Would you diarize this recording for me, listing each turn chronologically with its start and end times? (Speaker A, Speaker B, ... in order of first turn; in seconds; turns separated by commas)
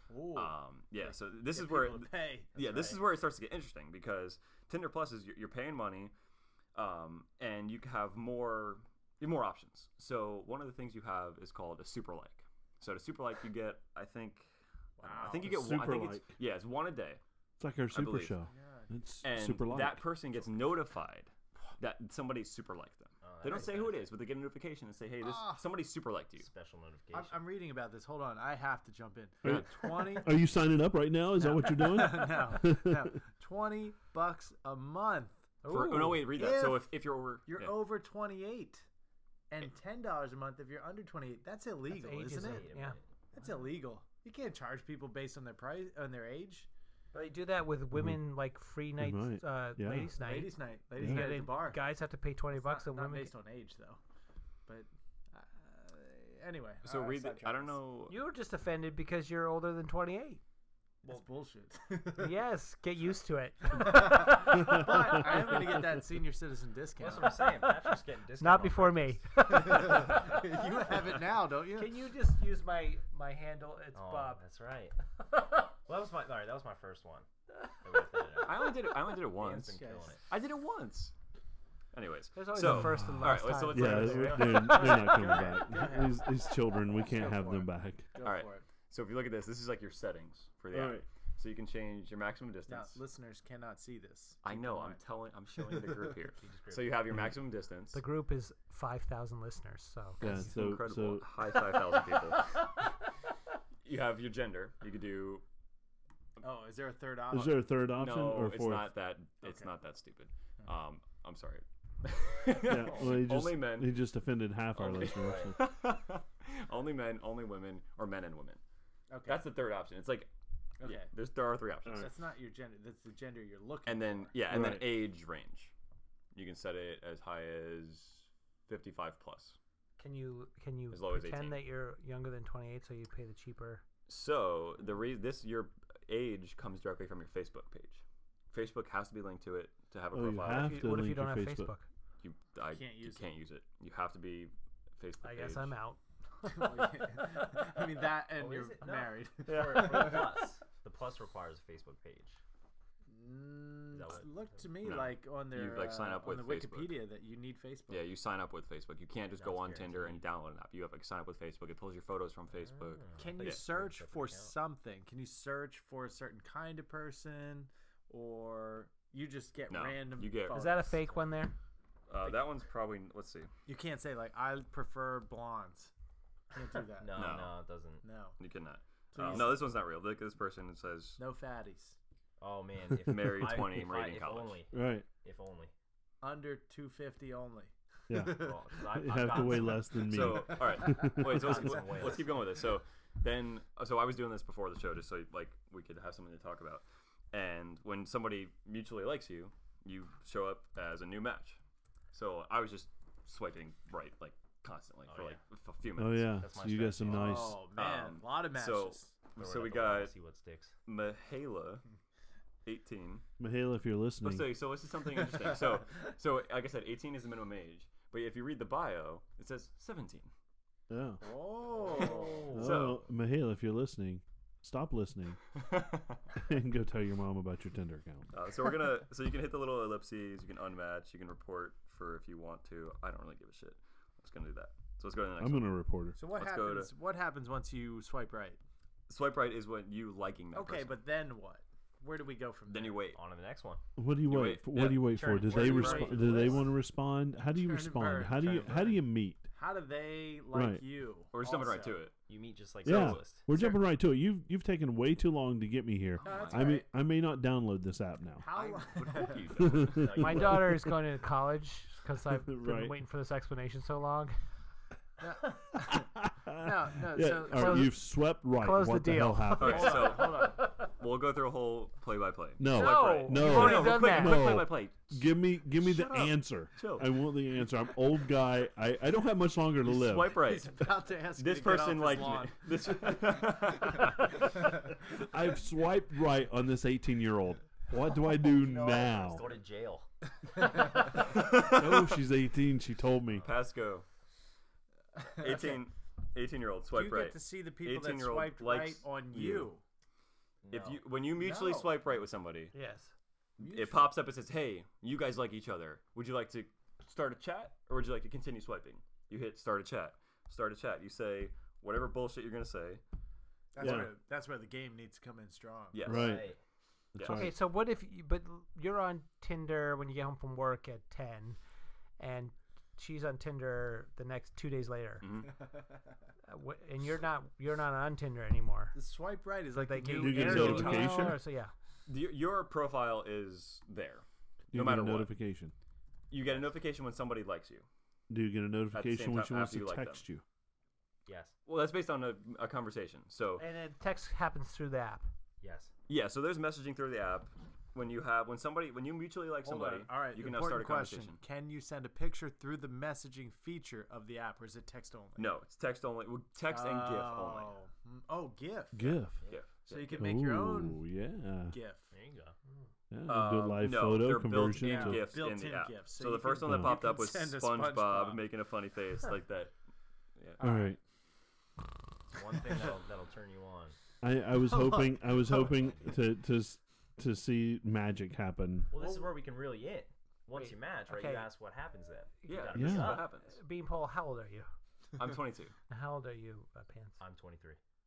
Speaker A: 0.1-2.5, Speaker B: 0.3-6.1, Speaker C: 2.5-3.0, Speaker B: 6.8-14.5, Speaker A: 15.0-15.7, Speaker B: 15.1-17.2, Speaker D: 15.3-16.4, Speaker D: 17.6-20.1, Speaker B: 17.9-18.4, Speaker A: 18.4-18.9, Speaker B: 19.2-26.5, Speaker C: 23.2-24.1, Speaker A: 25.2-25.7, Speaker C: 26.4-27.4, Speaker A: 27.1-30.4, Speaker D: 29.4-33.1, Speaker A: 31.4-35.6, Speaker E: 35.6-36.3, Speaker B: 35.7-37.8, Speaker A: 36.1-38.9, Speaker A: 39.5-42.7, Speaker E: 41.9-43.0, Speaker C: 42.3-43.0, Speaker A: 43.3-46.7, Speaker E: 47.1-53.3, Speaker D: 48.0-48.2, Speaker D: 49.0-50.1, Speaker A: 50.1-51.9, Speaker D: 51.0-51.3, Speaker A: 52.5-54.0, Speaker A: 54.7-57.8, Speaker B: 56.8-58.2, Speaker E: 58.1-60.4, Speaker A: 61.0-62.4, Speaker E: 62.1-65.3, Speaker A: 63.7-67.5, Speaker C: 67.0-69.2, Speaker E: 67.2-67.9, Speaker E: 68.4-70.5, Speaker A: 69.5-72.0, Speaker E: 71.6-74.4, Speaker C: 73.9-75.0, Speaker C: 75.8-77.3, Speaker C: 77.8-80.2, Speaker B: 78.4-81.1, Speaker A: 79.6-80.2, Speaker B: 81.9-85.2, Speaker E: 82.3-85.4, Speaker D: 82.6-88.1, Speaker A: 84.5-88.7, Speaker B: 88.2-93.0, Speaker D: 90.7-91.0, Speaker A: 92.7-95.0, Speaker B: 94.4-98.0, Speaker A: 95.6-96.1, Speaker C: 96.4-97.0, Speaker E: 97.9-100.4, Speaker D: 100.2-101.3, Speaker B: 100.2-102.8, Speaker B: 103.8-105.4, Speaker A: 106.4-107.7, Speaker D: 107.3-108.9, Speaker B: 107.9-114.0, Speaker D: 112.6-115.6, Speaker B: 114.8-118.6, Speaker C: 115.0-115.5, Speaker A: 119.1-119.5, Speaker B: 119.2-122.1, Speaker A: 120.8-121.1, Speaker A: 121.9-124.3, Speaker B: 123.8-125.7, Speaker D: 124.5-125.0, Speaker B: 126.3-129.6, Speaker E: 130.0-133.8, Speaker B: 130.9-131.6, Speaker B: 134.1-140.9, Speaker D: 140.1-141.7, Speaker E: 140.5-141.9, Speaker B: 142.2-145.8, Speaker A: 142.7-143.3, Speaker E: 145.2-147.1, Speaker A: 146.4-150.4, Speaker C: 148.3-152.4, Speaker E: 149.5-150.3, Speaker A: 153.1-158.1, Speaker C: 153.9-154.3, Speaker B: 154.8-157.0, Speaker B: 157.9-163.7, Speaker C: 159.4-160.2, Speaker C: 162.7-164.5, Speaker A: 163.2-171.0, Speaker B: 169.7-170.7, Speaker E: 170.5-171.5, Speaker B: 172.1-173.5, Speaker A: 173.7-175.9, Speaker A: 176.5-177.4, Speaker C: 177.0-178.0, Speaker B: 177.1-177.6, Speaker A: 178.0-178.4, Speaker B: 178.4-181.2, Speaker A: 179.1-179.7, Speaker A: 181.2-182.0, Speaker C: 182.4-185.7, Speaker B: 183.0-184.6, Speaker D: 184.7-185.1, Speaker A: 186.2-188.6, Speaker D: 188.1-191.5, Speaker C: 188.2-190.1, Speaker A: 189.2-189.7, Speaker B: 190.0-201.6, Speaker C: 191.0-192.3, Speaker B: 202.1-206.4, Speaker C: 205.1-205.4, Speaker D: 206.0-207.6, Speaker C: 206.3-207.5, Speaker A: 207.1-209.1, Speaker B: 207.7-210.1, Speaker C: 209.4-210.8, Speaker B: 210.9-211.8, Speaker B: 212.7-213.2, Speaker D: 213.4-214.5, Speaker B: 214.2-220.3, Speaker D: 220.9-221.2, Speaker A: 221.2-222.5, Speaker C: 221.7-222.8, Speaker B: 221.9-223.0, Speaker D: 222.5-225.4, Speaker B: 225.5-226.2, Speaker D: 226.4-228.3, Speaker B: 228.3-235.7, Speaker D: 235.4-236.2, Speaker A: 236.1-238.6, Speaker B: 236.3-236.9, Speaker B: 239.1-241.0, Speaker A: 240.5-243.1, Speaker B: 242.7-243.2, Speaker C: 243.1-243.8, Speaker D: 244.0-249.5, Speaker B: 244.3-246.1, Speaker C: 244.8-246.7, Speaker A: 245.4-246.7, Speaker A: 247.5-252.0, Speaker D: 250.5-250.8, Speaker B: 251.3-252.1, Speaker C: 252.3-253.4, Speaker D: 252.8-258.5, Speaker A: 253.5-253.8, Speaker B: 256.2-256.8, Speaker A: 256.2-256.9, Speaker A: 258.4-259.6, Speaker B: 258.6-260.4, Speaker D: 259.6-260.9, Speaker C: 259.8-260.7, Speaker E: 260.1-264.4, Speaker D: 262.4-262.9, Speaker A: 265.2-267.9, Speaker D: 265.9-270.0, Speaker E: 267.4-270.7, Speaker B: 269.6-277.1, Speaker A: 269.6-270.6, Speaker D: 272.6-280.4, Speaker E: 272.7-274.7, Speaker B: 279.8-284.5, Speaker A: 280.1-282.6, Speaker D: 285.1-289.4, Speaker C: 288.4-290.1, Speaker B: 290.9-292.2, Speaker D: 291.6-293.5, Speaker B: 293.4-294.1, Speaker A: 295.2-295.8, Speaker B: 295.4-299.7, Speaker A: 296.9-299.8, Speaker C: 300.6-301.0, Speaker B: 300.7-302.7, Speaker A: 301.4-302.0, Speaker E: 302.7-303.1, Speaker A: 303.6-304.1, Speaker B: 303.6-313.0, Speaker A: 313.7-316.0, Speaker D: 313.8-314.1, Speaker B: 315.9-316.5, Speaker D: 316.1-316.5, Speaker C: 316.1-316.6, Speaker D: 317.1-317.5, Speaker B: 317.2-317.5, Speaker E: 317.2-321.6, Speaker E: 322.2-325.3, Speaker B: 325.2-325.5, Speaker E: 326.4-328.9, Speaker A: 328.9-331.3, Speaker E: 329.7-331.7, Speaker D: 330.2-331.4, Speaker B: 330.4-331.2, Speaker B: 332.1-335.3, Speaker D: 334.7-335.7, Speaker B: 336.3-337.9, Speaker D: 338.3-340.4, Speaker B: 338.9-340.2, Speaker C: 341.3-341.6, Speaker B: 341.7-343.7, Speaker E: 343.6-345.3, Speaker C: 345.6-345.9, Speaker B: 346.1-351.4, Speaker A: 349.6-355.5, Speaker B: 355.4-357.7, Speaker A: 356.7-359.2, Speaker D: 358.9-359.4, Speaker C: 359.4-359.6, Speaker B: 359.5-360.3, Speaker A: 359.9-361.0, Speaker D: 360.1-361.8, Speaker A: 361.7-362.1, Speaker C: 362.1-362.6, Speaker D: 363.1-365.4, Speaker B: 363.3-369.7, Speaker A: 364.7-368.4, Speaker D: 366.6-366.9, Speaker B: 370.4-370.6, Speaker D: 370.6-371.0, Speaker A: 370.6-370.9, Speaker C: 372.3-374.0, Speaker D: 374.2-378.9, Speaker A: 374.6-375.8, Speaker C: 375.6-376.1, Speaker C: 378.9-383.3, Speaker E: 380.5-381.5, Speaker E: 382.4-384.7, Speaker B: 382.5-383.5, Speaker D: 382.8-383.2, Speaker B: 385.2-385.8, Speaker E: 385.9-387.2, Speaker C: 387.2-387.8